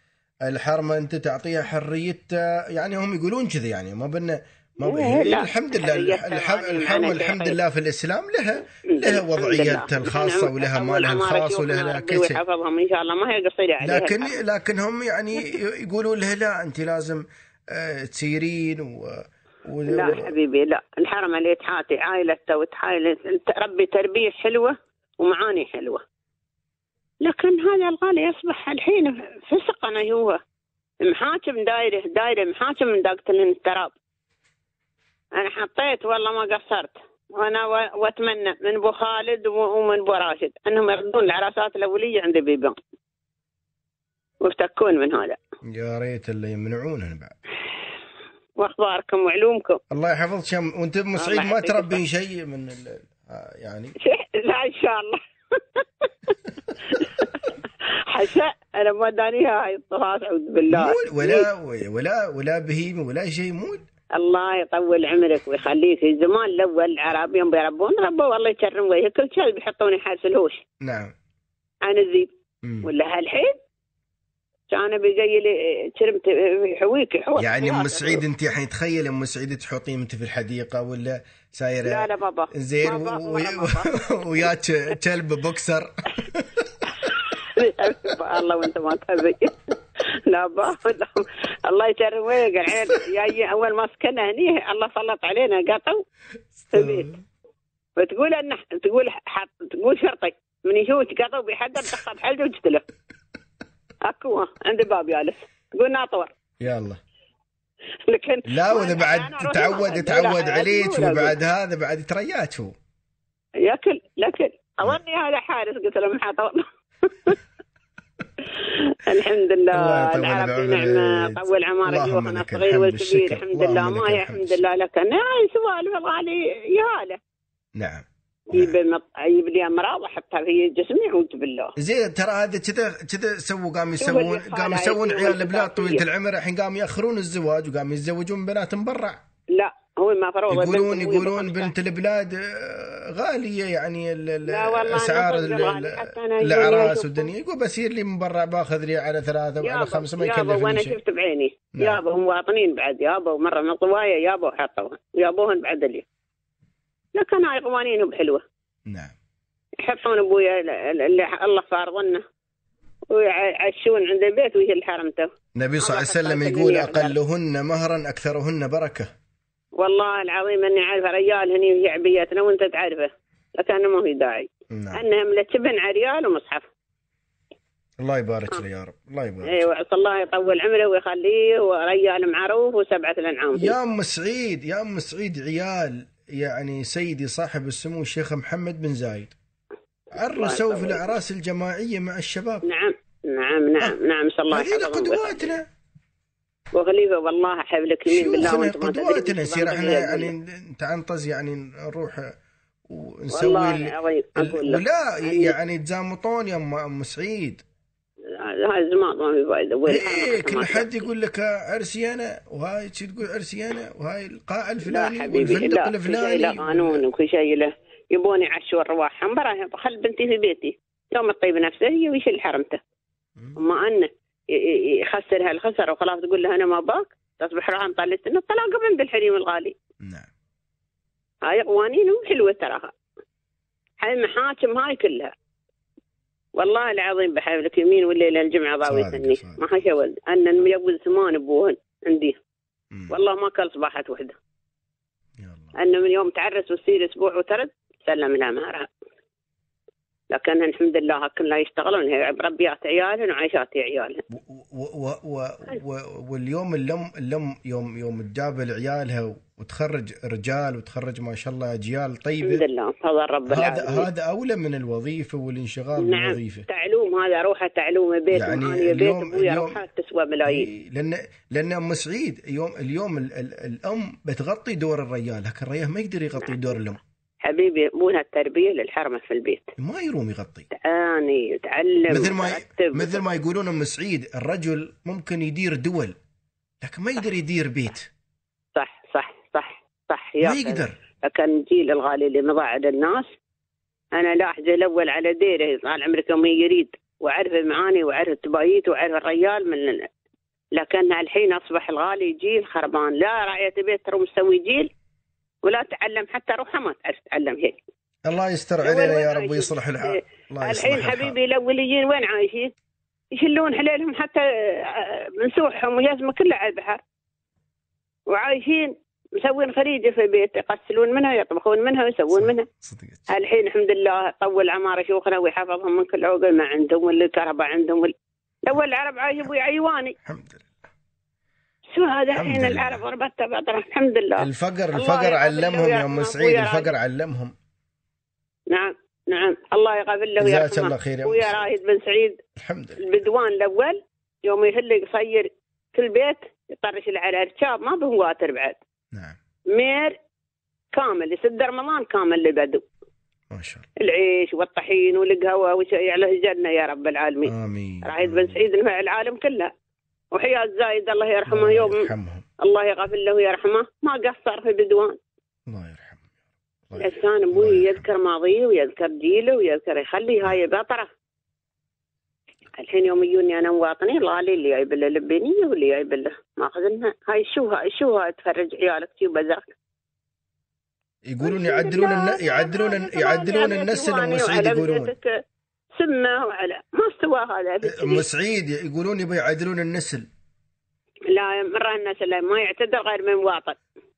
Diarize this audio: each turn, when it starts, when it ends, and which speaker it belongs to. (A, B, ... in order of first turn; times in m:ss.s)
0:00.5-0:12.4 A
0:04.8-0:07.6 B
0:08.9-0:14.4 B
0:13.8-0:20.3 A
0:19.9-0:26.0 B
0:27.2-0:30.4 B
0:31.0-0:33.9 B
0:35.3-0:42.7 B
0:44.4-0:45.4 B
0:45.7-0:47.4 A
0:48.6-0:49.8 B
0:49.9-0:53.9 A
0:51.2-0:52.0 B
0:54.0-1:01.5 B
1:00.7-1:03.8 A
1:04.1-1:10.6 B
1:10.8-1:11.1 A
1:11.8-1:12.3 B
1:12.6-1:12.9 A
1:12.8-1:13.5 B
1:14.7-1:18.2 B
1:17.4-1:26.5 A
1:21.8-1:25.0 B
1:27.0-1:36.0 B
1:36.6-1:37.2 A
1:36.7-1:37.1 B
1:38.0-1:42.8 B
1:44.0-1:46.3 B
1:46.6-1:47.0 A
1:48.0-1:51.4 B
1:48.5-1:52.7 A
1:53.6-1:57.4 B
1:58.4-2:07.2 B
1:59.7-2:04.6 A
2:07.8-2:08.8 A
2:08.5-2:11.7 B
2:11.8-2:19.2 A
2:14.0-2:16.0 B
2:19.5-2:21.7 B
2:20.5-2:31.0 A
2:24.4-2:27.3 B
2:29.6-2:36.0 B
2:31.8-2:32.0 A
2:37.1-2:38.4 B
2:38.9-2:39.1 A
2:39.8-2:42.2 B
2:43.1-2:47.2 B
2:45.6-2:49.1 A
2:49.8-2:56.7 B
2:54.7-2:55.0 A
2:58.0-2:59.6 A
2:59.4-3:03.8 B
3:03.5-3:09.3 A
3:10.1-3:12.6 A
3:10.3-3:11.2 B
3:12.6-3:15.5 B
3:14.5-3:15.6 A
3:16.7-3:20.3 B
3:18.1-3:22.3 A
3:22.9-3:27.6 A
3:23.3-3:25.6 B
3:28.3-3:31.0 B
3:29.9-3:37.0 A
3:34.8-3:42.8 B
3:43.6-3:49.8 B
3:50.0-3:50.3 A
3:51.4-3:52.9 B
3:54.0-3:55.3 B
3:56.6-4:02.4 B
3:58.8-3:59.9 A
4:03.1-4:04.4 B
4:05.4-4:05.7 A
4:05.8-4:08.9 B
4:10.3-4:14.2 B
4:14.3-4:22.6 A
4:22.4-4:24.1 B
4:23.4-4:26.6 A
4:26.0-4:30.7 B
4:28.3-4:29.8 A
4:30.4-4:37.0 A
4:36.4-4:36.9 B
4:37.4-4:39.7 B
4:39.8-4:40.6 A
4:40.7-4:43.2 B
4:42.1-4:46.2 A
4:46.8-4:48.1 A
4:48.7-4:53.3 B
4:50.4-4:51.0 A
4:54.1-5:00.0 B
5:00.7-5:04.9 B
5:05.6-5:07.8 B
5:08.2-5:11.4 A
5:08.8-5:12.7 B
5:13.3-5:17.0 B
5:18.3-5:22.7 B
5:22.3-5:23.3 A
5:23.3-5:28.1 B
5:28.6-5:30.1 B
5:30.2-5:30.8 A
5:31.9-5:36.9 B
5:32.3-5:33.0 A
5:34.4-5:37.5 A
5:38.7-5:42.4 B
5:40.4-5:41.7 A
5:42.6-5:43.1 A
5:43.0-5:48.8 B
5:49.7-5:50.1 B
5:50.9-5:52.8 B
5:53.5-5:53.8 A
5:54.0-5:59.7 B
5:57.4-5:58.6 A
6:00.3-6:02.1 B
6:01.5-6:02.4 A
6:02.6-6:05.2 B
6:05.7-6:06.3 A
6:06.9-6:08.1 A
6:07.0-6:11.1 B
6:12.8-6:19.7 B
6:21.2-6:25.1 A
6:21.4-6:25.3 B
6:26.0-6:28.2 B
6:27.8-6:30.2 A
6:31.3-6:33.8 B